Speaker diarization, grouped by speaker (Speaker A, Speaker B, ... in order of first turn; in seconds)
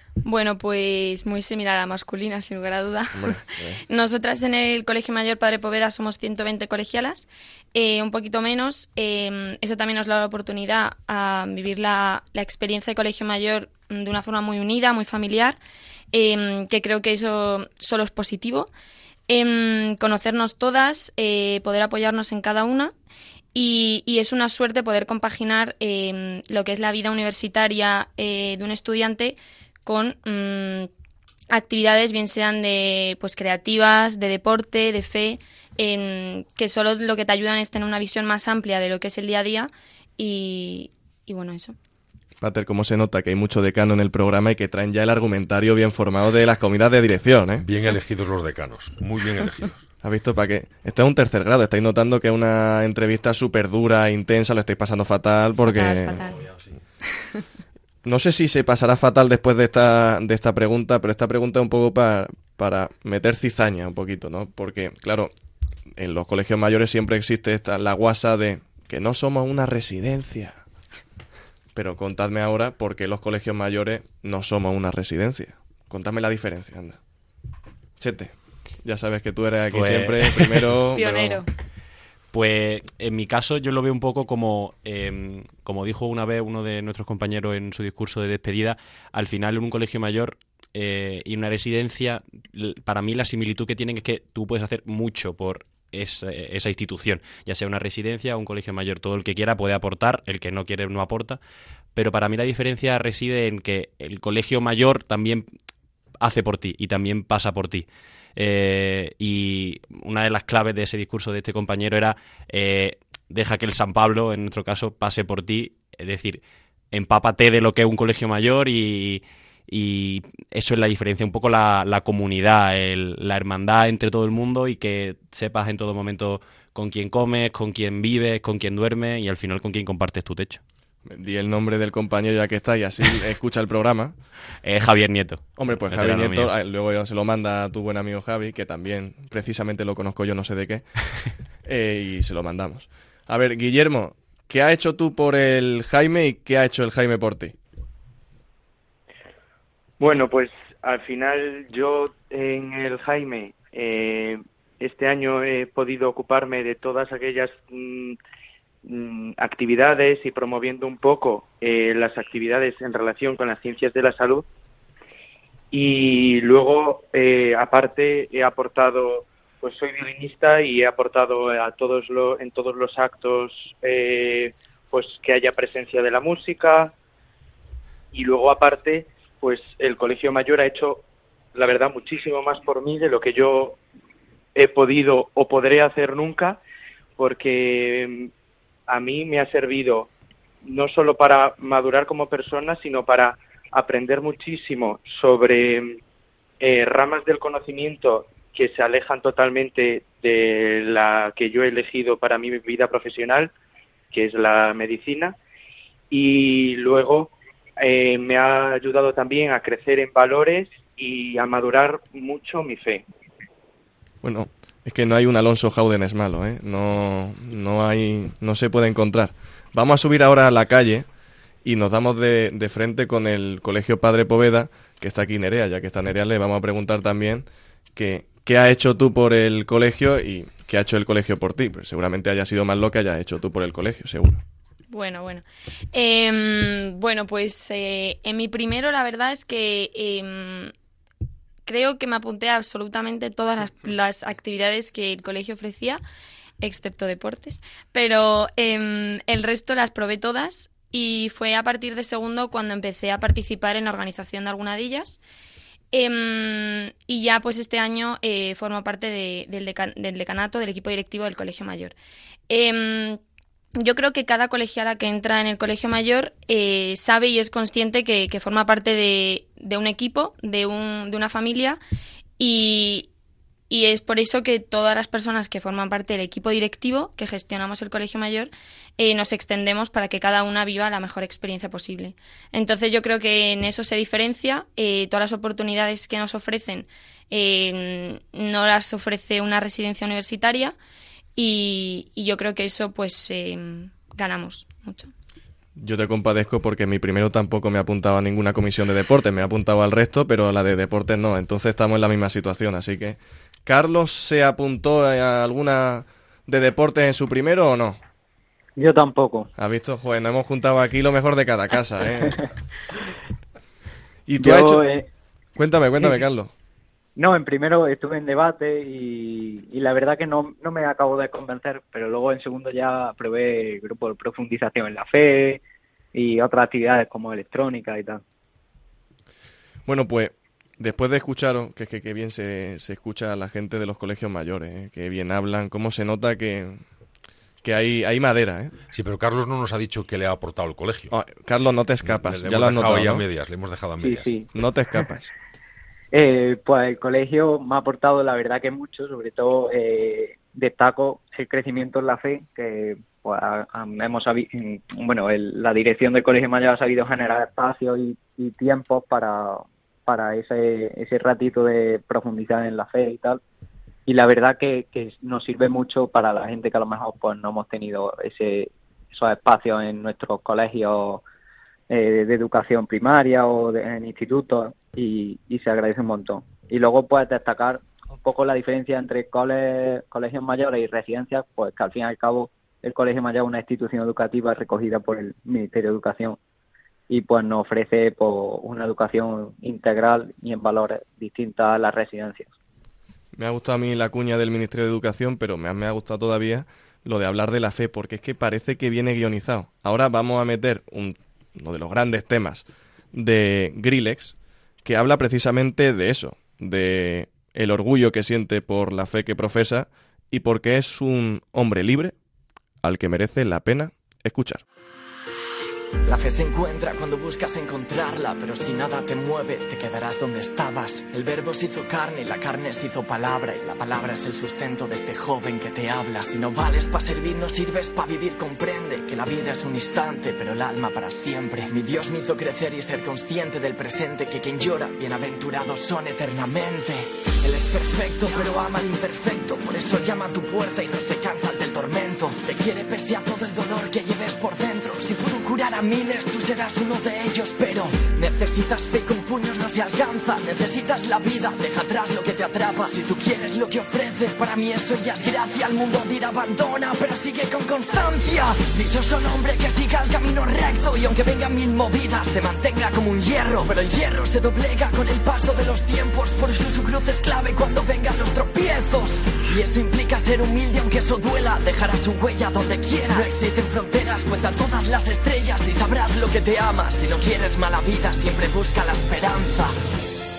Speaker A: 0.2-15.6, 16.1-18.7, 19.3-22.9, 23.6-30.9, 31.5-41.8, 55.6-56.4, 80.9-81.5, 234.9-240.7, 241.7-246.0, 246.6-255.2, 255.9-261.9, 262.5-263.2, 263.8-271.8, 272.4-273.1, 273.7-290.8, 291.4-295.1
Speaker B: 3.1-3.8, 42.4-47.7, 50.0-56.3, 58.0-65.3, 66.0-70.6, 71.8-77.0, 78.0-81.4, 131.1-134.2, 135.6-141.1, 141.6-147.6, 214.2-221.1, 221.6-234.4, 295.8-308.0, 309.6-312.4, 314.3-314.9, 315.6-316.5, 329.9-336.8, 337.6-338.7, 341.1-343.2, 344.5-345.3, 393.3-412.1, 412.8-414.6
Speaker C: 47.6-49.8, 338.9-341.1, 342.1-344.3
Speaker D: 79.7-80.7, 82.3-101.4, 102.0-105.5, 106.2-130.6, 134.6-136.5
Speaker E: 150.0-158.2, 158.8-164.5, 165.7-176.9, 178.1-183.8, 184.6-186.6, 187.2-188.3, 188.9-190.1, 190.6-196.0, 196.6-203.5, 204.1-205.4, 206.1-213.1
Speaker F: 308.8-309.5, 314.4-315.1, 317.2-325.6, 326.1-328.2, 344.0-344.5, 346.1-363.4, 364.1-371.2, 371.9-386.4, 387.1-392.5
Speaker G: 416.1-479.8